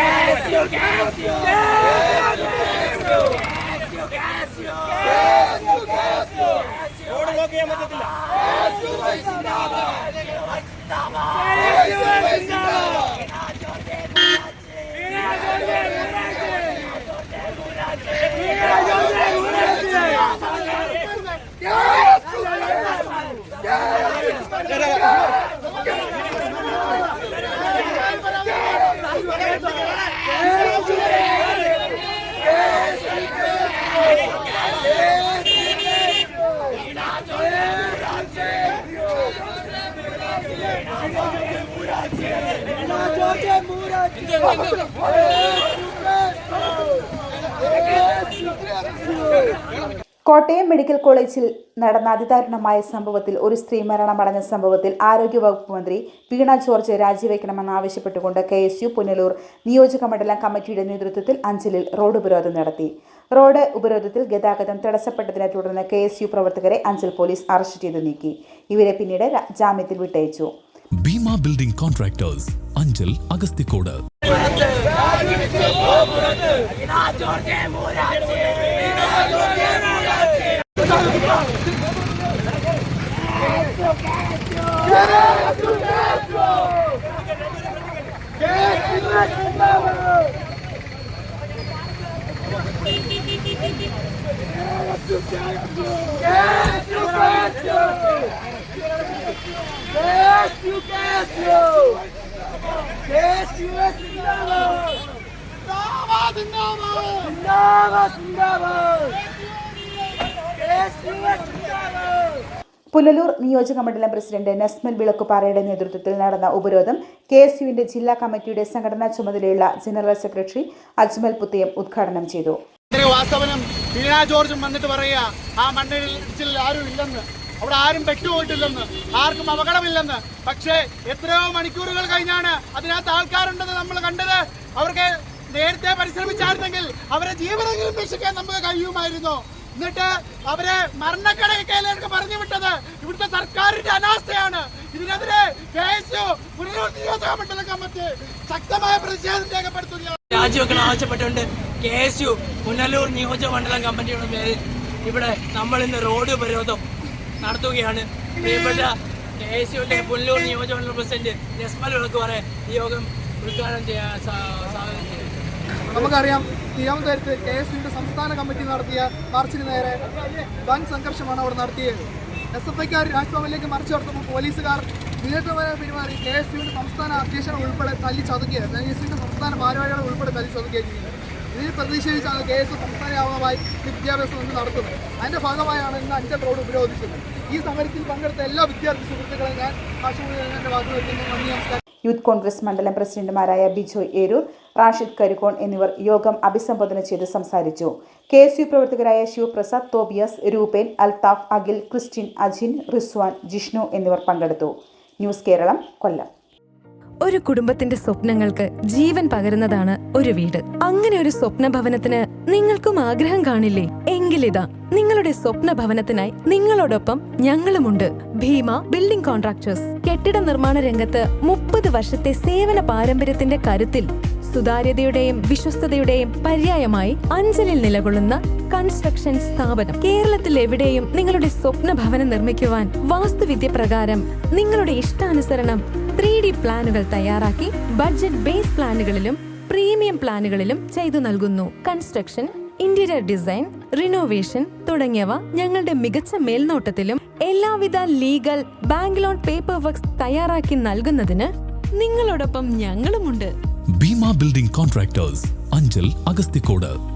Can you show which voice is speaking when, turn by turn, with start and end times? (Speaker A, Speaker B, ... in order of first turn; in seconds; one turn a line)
Speaker A: 18.7-21.4
Speaker A: 24.2-29.6
Speaker B: 43.1-43.6
Speaker C: 50.3-70.5
Speaker D: 71.0-74.0
Speaker B: 96.3-97.9
Speaker B: 100.8-101.7
Speaker B: 103.7-104.0
Speaker A: 105.7-107.3
Speaker C: 112.9-122.6
Speaker A: 122.9-150.2
Speaker B: 150.3-156.8
Speaker B: 157.4-165.3
Speaker E: 165.9-191.8
Speaker C: 192.0-206.3
Speaker F: 207.2-253.5
Speaker D: 254.0-256.9